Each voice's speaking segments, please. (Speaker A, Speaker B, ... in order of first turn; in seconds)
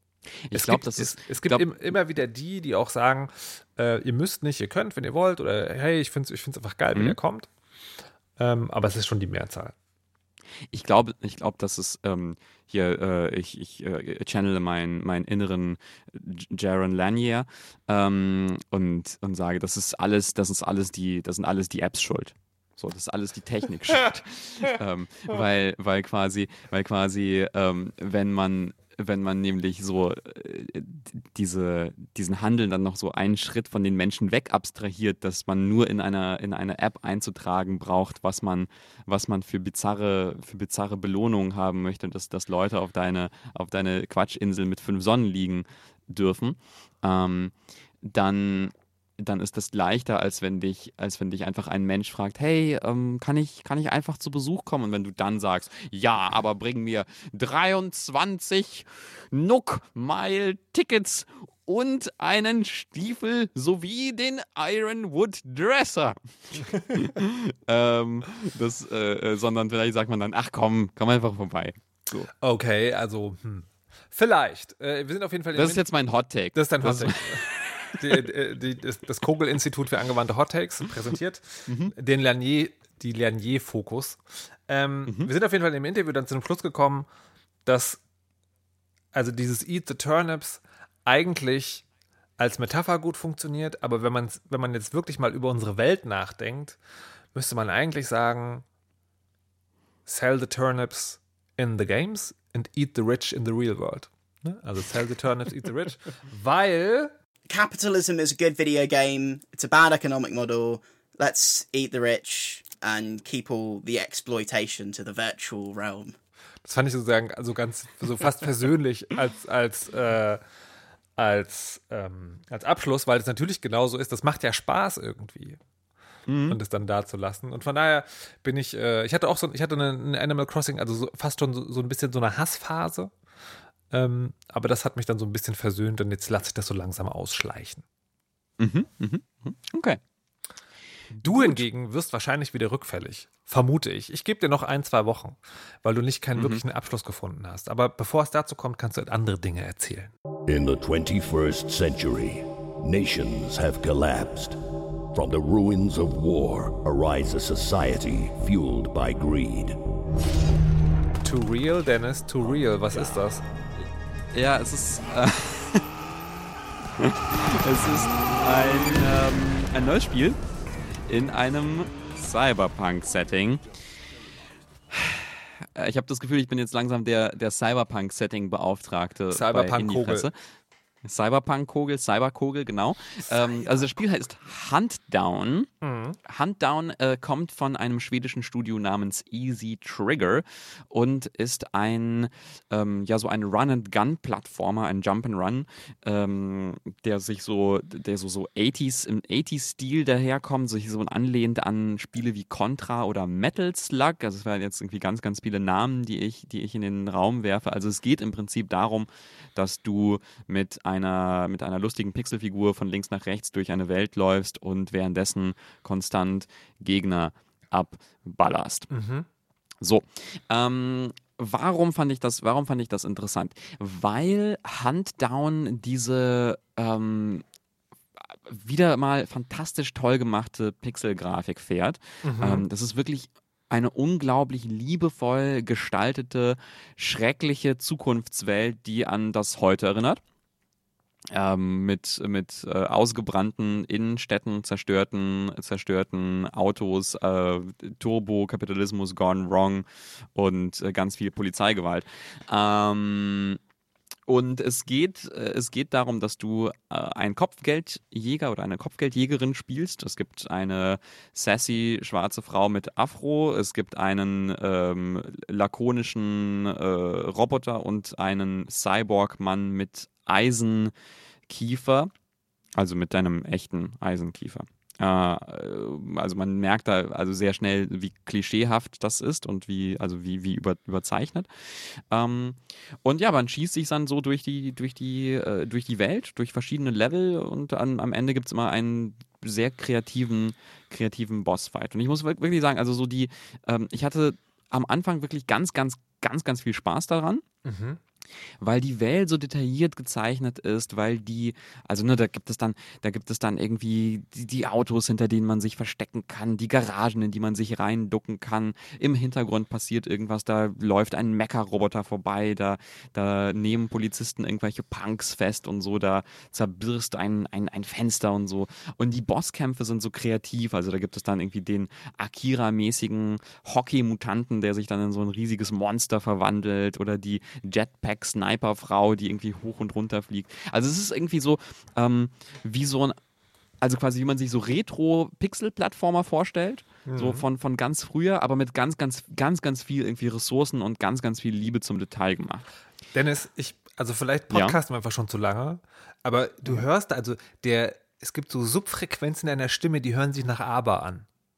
Speaker A: 0.5-1.7, 10.7-72.3, 75.5-78.1, 81.7-81.9, 126.3-126.6, 138.6-140.0, 141.2-141.6, 146.4-146.6, 164.3-165.9, 167.0-170.4, 171.1-173.6, 174.9-180.3, 181.0-185.7, 186.3-218.9, 219.8-227.4, 228.2-240.2, 241.3-253.6, 254.3-270.9, 271.5-272.1, 272.8-297.4, 298.6-333.2, 333.8-342.7, 344.5-344.8
Speaker B: 0.5-7.5, 8.4-9.8, 66.6-67.1, 72.3-75.9, 76.5-87.1, 87.7-88.0, 89.1-91.9, 92.4-96.8, 97.3-98.7, 100.1-107.1, 116.6-120.4, 121.2-125.6, 126.5-133.1, 133.9-137.8, 141.2-150.1, 161.2-163.4, 179.3-180.3, 183.3-183.9, 185.8-186.2, 218.9-219.3, 232.2-232.7, 297.6-298.0, 337.1-337.4, 343.1-351.3
Speaker C: 107.5-116.1
Speaker D: 150.5-154.6, 155.1-159.8